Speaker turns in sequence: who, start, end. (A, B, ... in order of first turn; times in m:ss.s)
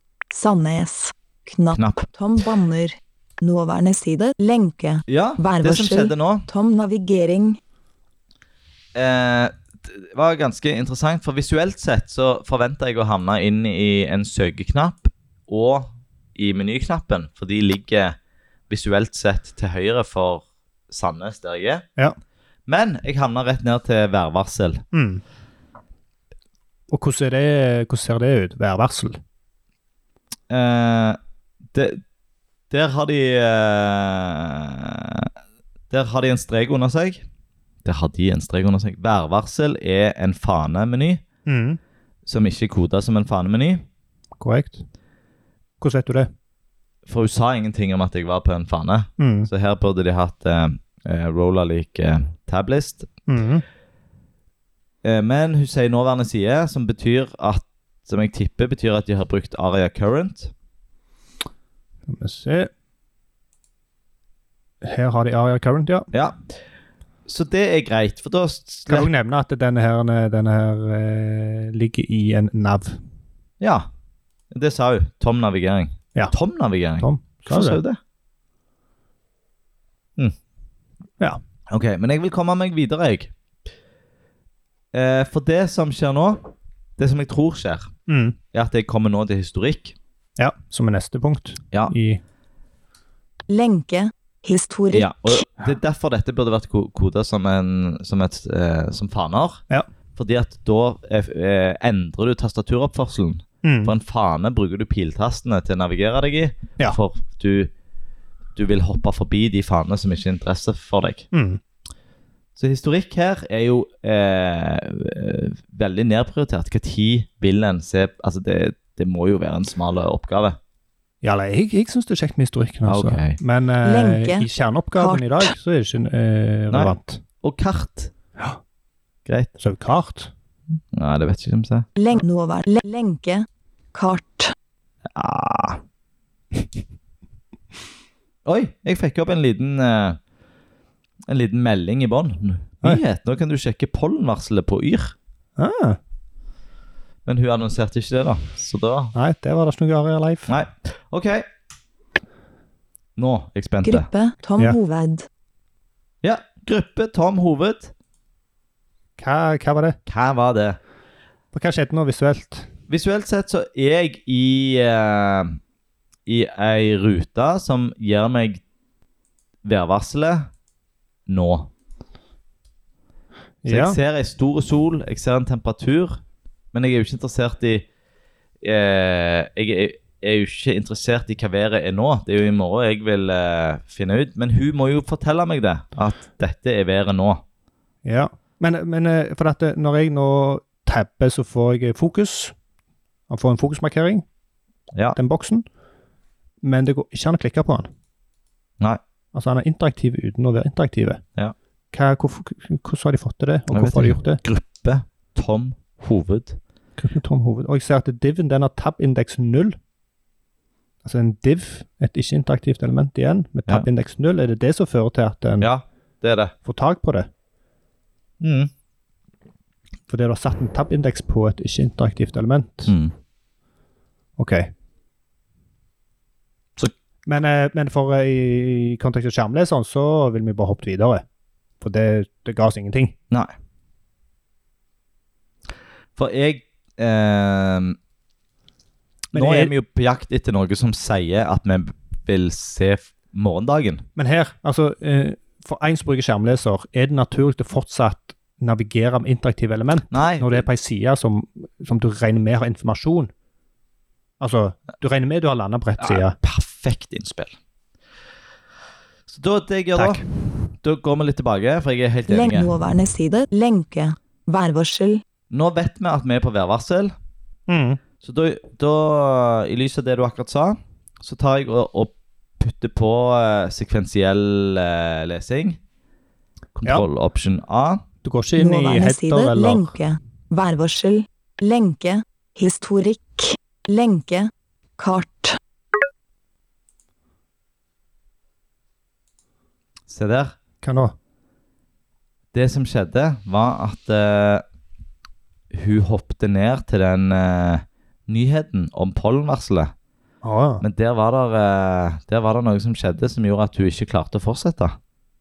0:00.3-0:07.6 A
0:01.8-0:02.0 B
0:05.1-0:06.5 B
0:09.0-0:18.2 B
0:18.7-0:21.8 B
0:22.7-0:24.8 B
0:24.9-0:25.2 C
0:26.9-0:29.2 C
0:30.5-0:31.2 B
0:31.7-0:32.0 B
0:32.7-0:35.3 B
0:35.9-0:37.2 B
0:37.8-0:41.2 B
0:41.5-0:41.8 C
0:42.3-0:43.8 B
0:44.4-0:44.8 C
0:45.8-0:46.3 C
0:47.1-0:53.1 B
0:49.2-0:49.5 C
0:53.3-0:53.6 C
0:55.0-1:00.5 B
1:02.1-1:02.7 C
1:04.8-1:06.1 C
1:06.1-1:06.4 B
1:07.3-1:09.1 B
1:08.9-1:13.0 C
1:13.6-1:13.9 B
1:14.5-1:18.0 B
1:17.0-1:17.8 C
1:21.7-1:23.3 B
1:24.9-1:27.9 B
1:28.1-1:28.4 C
1:28.5-1:30.0 B
1:30.4-1:32.2 C
1:33.5-1:35.4 A
1:34.9-1:39.6 B
1:40.2-1:47.7 B
1:43.6-1:43.9 C
1:48.6-1:51.3 B
1:51.3-1:51.6 C
1:52.6-2:00.6 B
2:01.2-2:07.2 C
2:02.9-2:03.4 B
2:03.8-2:05.5 A
2:06.7-2:08.1 B
2:09.3-2:09.5 B
2:09.6-2:10.3 C
2:10.9-2:11.9 B
2:12.0-2:14.5 A
2:15.1-2:15.8 B
2:18.4-2:20.2 B
2:21.3-2:25.2 B
2:25.6-2:26.0 C
2:27.2-2:29.1 B
2:29.1-2:30.5 C
2:30.5-2:31.5 B
2:33.2-2:34.1 B
2:33.8-2:35.3 A
2:36.2-2:37.9 B
2:39.2-2:40.0 C
2:40.1-2:40.8 B
2:41.5-2:42.7 C
2:42.9-2:45.6 B
2:46.3-2:48.6 B
2:49.6-2:50.5 B
2:51.3-2:51.7 B
2:53.6-2:54.0 C
2:53.7-2:56.2 B
2:56.7-2:57.9 B
2:58.6-3:07.4 B
3:08.0-3:12.6 C
3:13.3-3:14.2 C
3:15.2-3:15.6 C
3:16.6-3:17.9 C
3:19.3-3:21.2 C
3:21.9-3:24.4 C
3:23.7-3:26.6 B
3:27.0-3:29.8 C
3:31.0-3:35.7 C
3:35.6-3:36.5 B
3:36.6-3:37.3 C
3:38.4-3:38.7 B
3:40.1-3:42.9 C
3:42.9-3:43.1 B
3:44.4-3:44.7 C
3:47.3-3:51.2 C
3:51.8-3:53.2 C
3:56.2-3:58.0 B
3:59.3-3:59.7 C
3:59.3-4:04.0 B
4:04.2-4:13.3 C
4:10.1-4:10.6 B
4:14.4-4:16.4 C
4:16.0-4:17.6 B
4:19.3-4:22.7 B
4:20.0-4:20.2 C
4:22.3-4:25.2 A
4:25.5-4:27.1 B
4:27.7-4:28.0 C
4:28.2-4:35.8 B
4:36.8-4:38.0 B
4:38.2-4:39.9 C
4:38.6-4:45.6 A
4:50.1-4:50.6 B
4:50.8-4:51.2 C
4:52.5-4:54.6 B
4:55.7-4:59.9 B
5:00.4-5:00.8 C
5:00.8-5:05.0 B